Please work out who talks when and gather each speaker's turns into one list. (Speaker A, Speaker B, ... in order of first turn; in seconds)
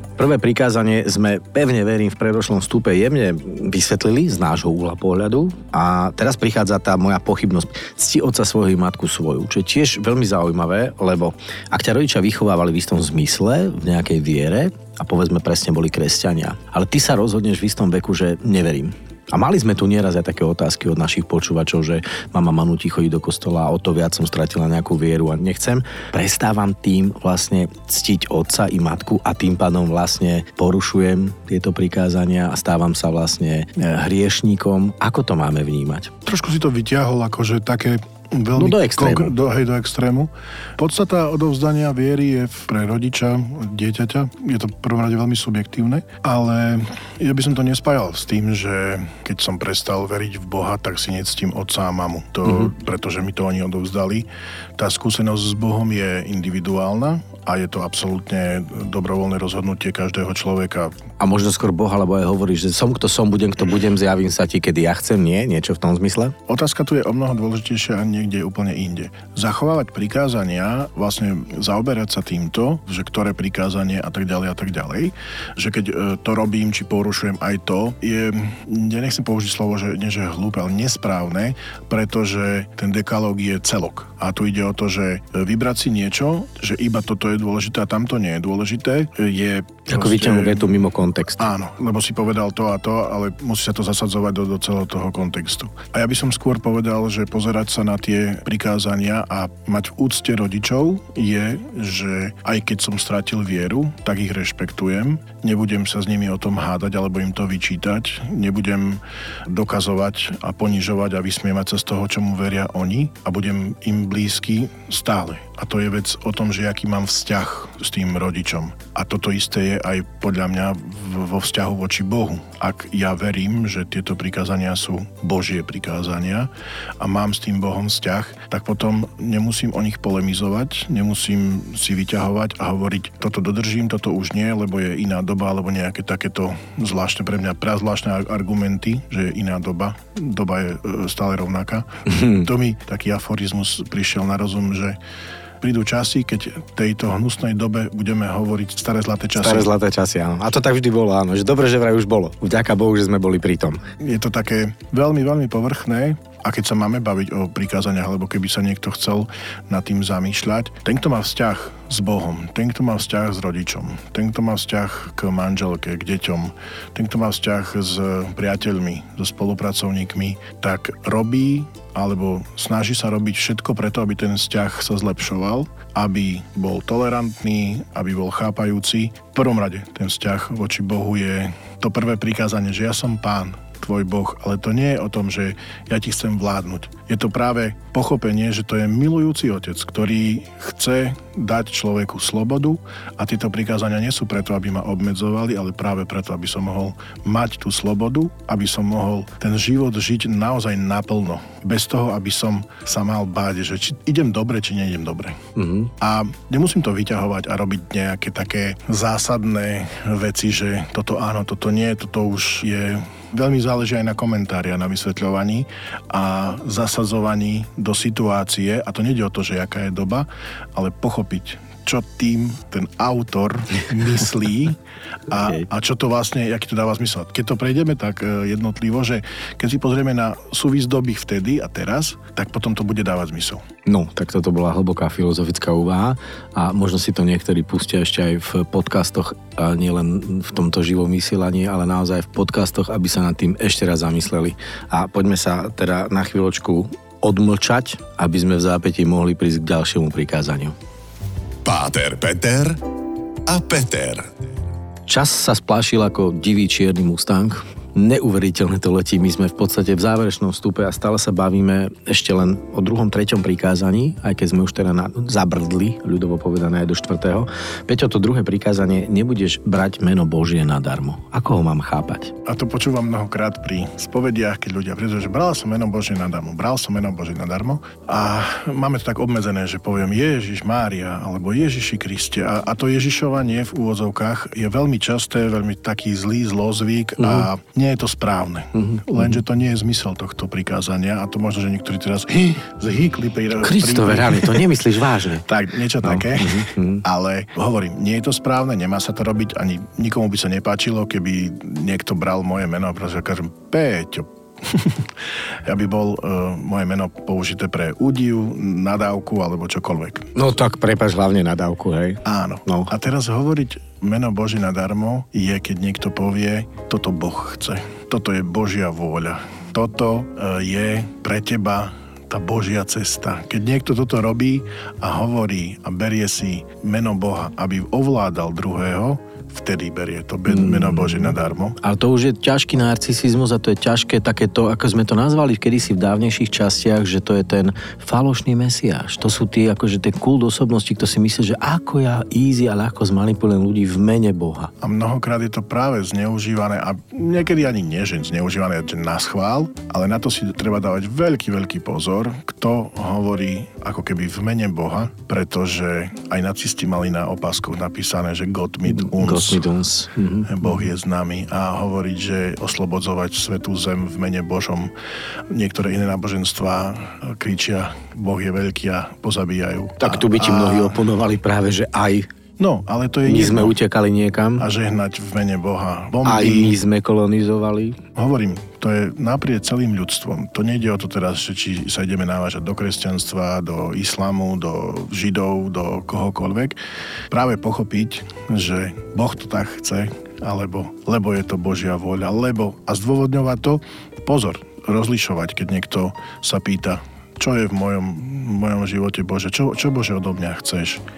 Speaker A: 0.2-36.1, 38.5-39.3, 52.5-52.7, 61.2-66.3, 89.9-91.5, 142.1-142.5, 149.4-153.8, 205.6-205.9, 233.8-250.7, 255.1-272.3, 287.2-287.5, 288.7-289.4, 293.6-295.4, 296.0-297.0, 310.3-312.9, 330.5-344.7, 358.9-360.8, 370.0-372.3, 373.2-374.7, 376.2-378.0
Speaker B: 36.2-60.9, 66.5-90.8, 91.4-145.0, 145.6-149.7, 154.0-205.4, 206.0-224.8, 225.3-233.6, 272.4-294.7, 295.4-305.1, 305.6-310.3, 312.2-331.8, 344.8-359.6, 360.4-364.9, 365.5-371.0, 372.6-373.8, 374.6-376.8, 378.1-386.8, 387.3-401.0
Speaker C: 251.6-252.8, 253.5-254.2